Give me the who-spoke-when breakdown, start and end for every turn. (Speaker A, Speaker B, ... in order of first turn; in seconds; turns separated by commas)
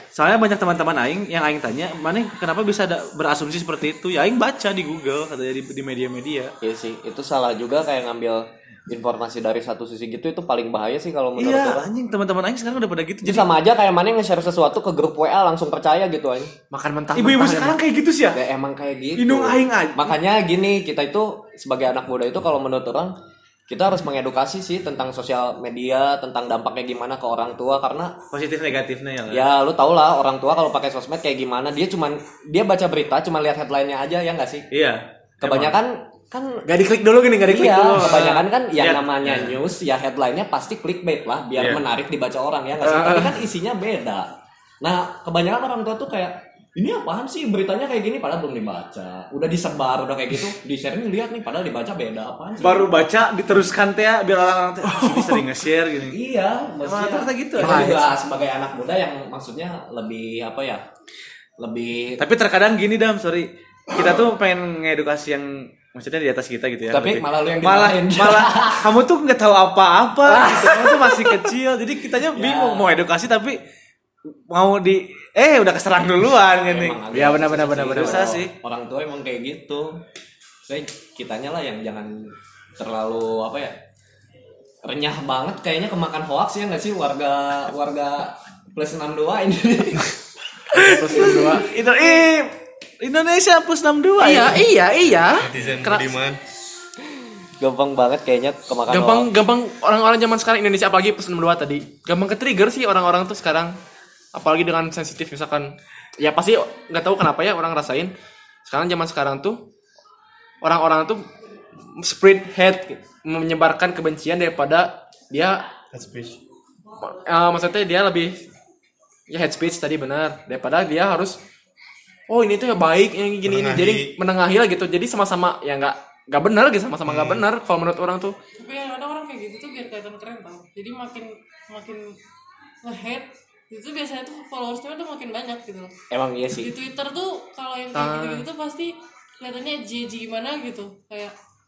Speaker A: 0.1-6.5, Speaker B: 6.6-11.8, Speaker A: 11.4-13.5, Speaker B: 13.2-16.5, Speaker C: 16.7-17.8, Speaker A: 17.1-18.4, Speaker B: 18.3-23.1, Speaker A: 19.1-20.1, Speaker B: 23.7-28.2, Speaker A: 28.3-29.5, Speaker B: 29.3-34.7, Speaker A: 34.7-35.8, Speaker B: 35.4-36.6, Speaker C: 36.6-38.4, Speaker B: 37.4-44.3, Speaker A: 38.8-39.5, Speaker A: 41.5-41.8, Speaker C: 42.8-43.4, Speaker B: 44.8-52.9, Speaker A: 52.6-56.2, Speaker C: 54.9-55.4, Speaker B: 56.1-60.8, Speaker A: 56.8-58.0, Speaker C: 57.6-58.0, Speaker B: 61.6-62.2, Speaker A: 62.2-73.6, Speaker B: 66.9-68.8, Speaker C: 70.3-71.5, Speaker B: 70.4-70.7, Speaker B: 72.3-72.9, Speaker A: 74.5-77.0, Speaker B: 76.6-80.0, Speaker C: 77.1-78.4, Speaker A: 77.9-78.5, Speaker B: 80.6-83.8, Speaker B: 84.8-90.1, Speaker C: 90.7-91.7, Speaker A: 90.7-94.6, Speaker C: 94.2-96.1, Speaker D: 95.4-96.4, Speaker A: 95.5-95.8, Speaker B: 97.6-99.3, Speaker C: 98.9-103.7, Speaker C: 104.3-108.1, Speaker C: 108.7-109.6, Speaker C: 110.6-111.3, Speaker C: 111.9-115.6, Speaker D: 115.9-116.4, Speaker C: 117.0-118.4, Speaker C: 119.3-121.4, Speaker C: 122.3-128.3, Speaker D: 123.4-124.1, Speaker D: 127.1-127.4, Speaker E: 128.6-132.1, Speaker E: 132.8-135.9, Speaker B: 136.1-136.7, Speaker E: 136.5-141.3, Speaker C: 137.9-138.4